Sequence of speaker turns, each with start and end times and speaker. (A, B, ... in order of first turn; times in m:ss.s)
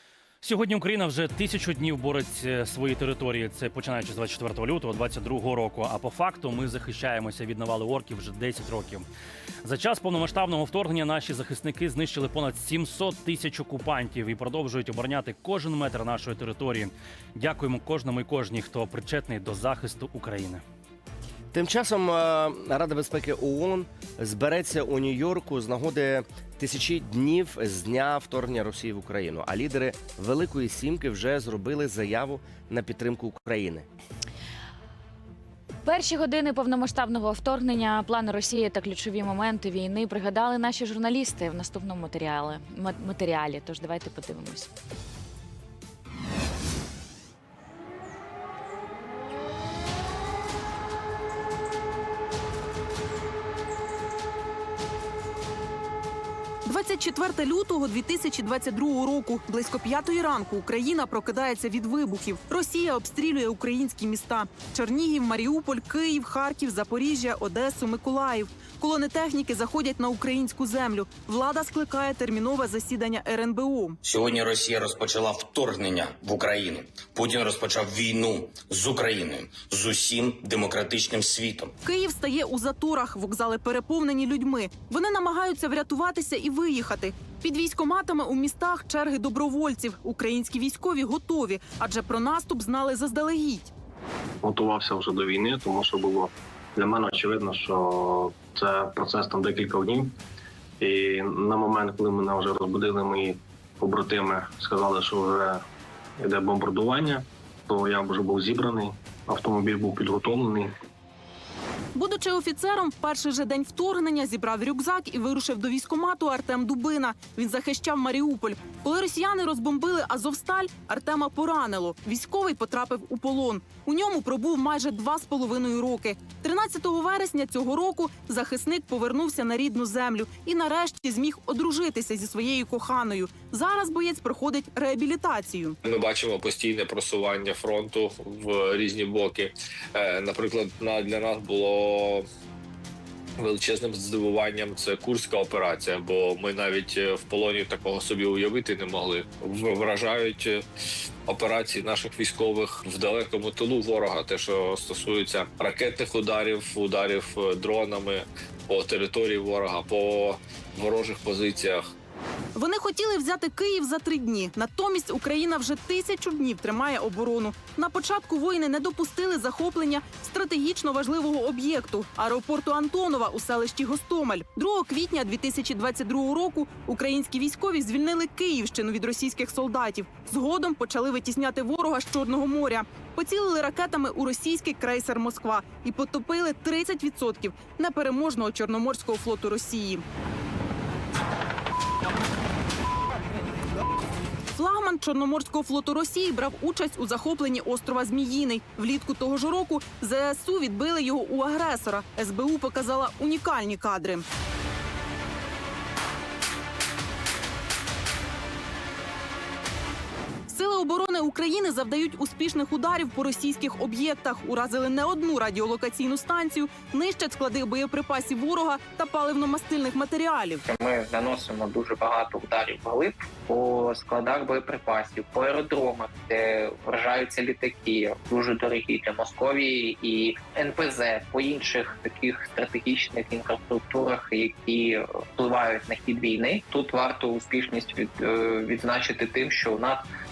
0:00.4-0:09.0 A
0:09.6-0:20.6 A
0:21.5-0:33.8 B
0:35.8-0:44.7 C
0:56.6-1:14.0 D
1:14.0-1:21.7 E
1:21.8-1:33.7 D
1:34.4-1:40.2 F
1:40.8-1:45.6 F
1:46.2-1:50.7 F
1:51.9-2:15.8 D
2:15.8-2:22.2 G
2:23.4-2:30.6 G
2:31.3-2:41.8 G
2:42.5-3:10.0 D
3:14.5-3:24.2 D
3:30.5-3:40.6 D
3:40.6-4:00.0 H